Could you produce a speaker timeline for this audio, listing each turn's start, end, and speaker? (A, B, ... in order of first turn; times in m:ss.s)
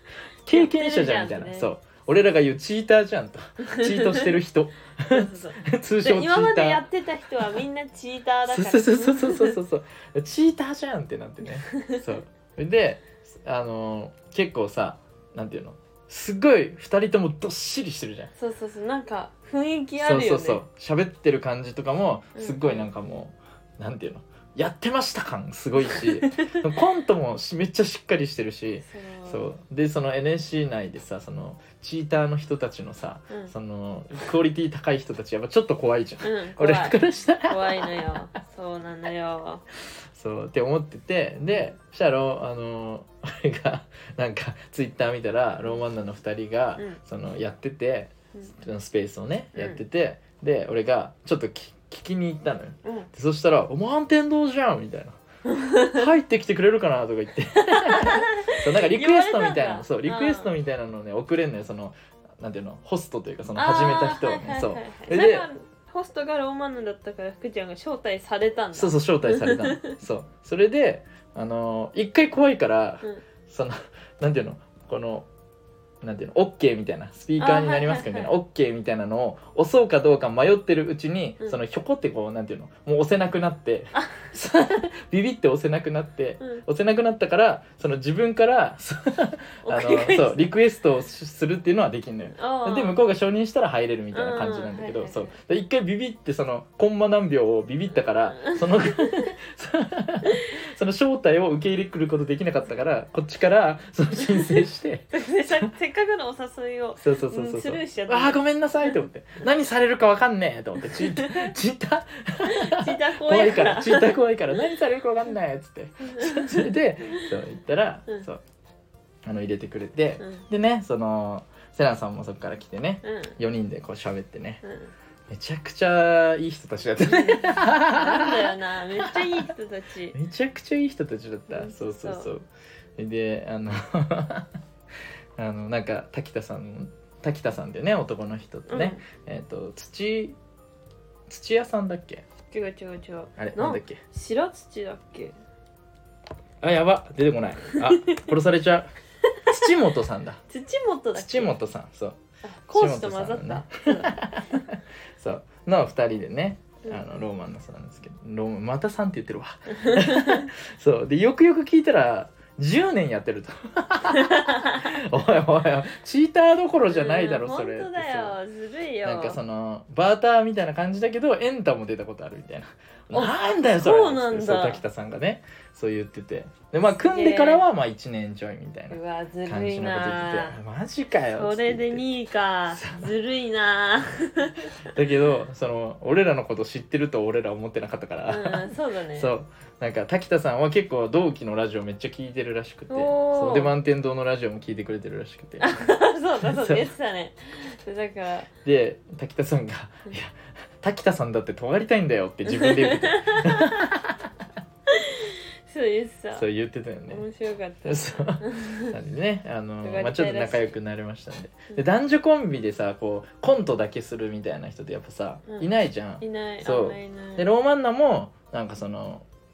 0:00.4-0:06.8 A
0:00.5-0:01.7 B
0:03.6-0:04.4 B
0:05.1-0:09.6 B
0:08.5-0:18.3 A
0:11.7-0:12.0 B
0:18.4-0:20.6 B
0:20.0-0:38.2 A
0:22.4-0:22.9 B
0:25.8-0:26.6 B
0:28.9-0:29.5 B
0:36.2-0:39.6 B
0:40.1-0:55.2 A
0:49.6-0:49.8 B
0:52.8-0:53.1 B
0:55.5-0:56.1 B
0:55.9-1:05.5 A
0:57.7-1:00.5 B
1:03.6-1:10.0 B
1:08.7-1:15.3 A
1:16.0-1:45.7 A
1:17.4-1:18.3 B
1:29.6-1:30.5 B
1:32.3-1:33.0 B
1:34.1-1:35.4 B
1:38.4-1:39.3 B
1:40.3-1:40.5 B
1:45.1-1:49.0 B
1:47.0-1:58.4 A
1:50.8-1:51.5 B
1:52.4-1:54.7 B
1:56.0-1:57.3 B
1:59.2-2:04.6 A
2:00.2-2:00.5 B
2:03.0-2:03.4 B
2:04.6-2:04.9 B
2:05.3-2:09.5 A
2:07.0-2:10.2 B
2:10.1-2:12.4 A
2:11.5-2:12.3 B
2:13.0-2:14.5 A
2:15.4-2:20.4 A
2:18.7-2:19.0 B
2:21.3-2:22.2 A
2:22.5-2:25.4 B
2:23.4-2:24.0 A
2:26.6-2:28.9 A
2:27.9-2:28.2 B
2:29.5-2:30.4 A
2:30.5-2:31.6 B
2:31.2-2:32.2 A
2:32.4-2:34.6 B
2:32.7-2:48.4 A
2:39.7-2:40.5 B
2:44.1-2:44.9 B
2:46.9-2:49.4 B
2:49.0-3:02.0 A
2:53.1-2:54.8 B
2:56.9-2:57.6 B
2:58.9-3:00.6 B
3:01.3-3:05.2 B
3:02.7-3:03.1 A
3:04.9-3:15.9 A
3:08.3-3:09.3 B
3:12.9-3:13.7 B
3:15.6-3:18.5 B
3:16.4-3:16.9 A
3:18.6-3:24.2 A
3:22.5-3:23.8 B
3:24.9-3:26.4 B
3:26.4-3:27.2 A
3:27.1-3:28.9 B
3:27.8-3:39.3 A
3:29.8-3:30.7 B
3:36.2-3:37.5 B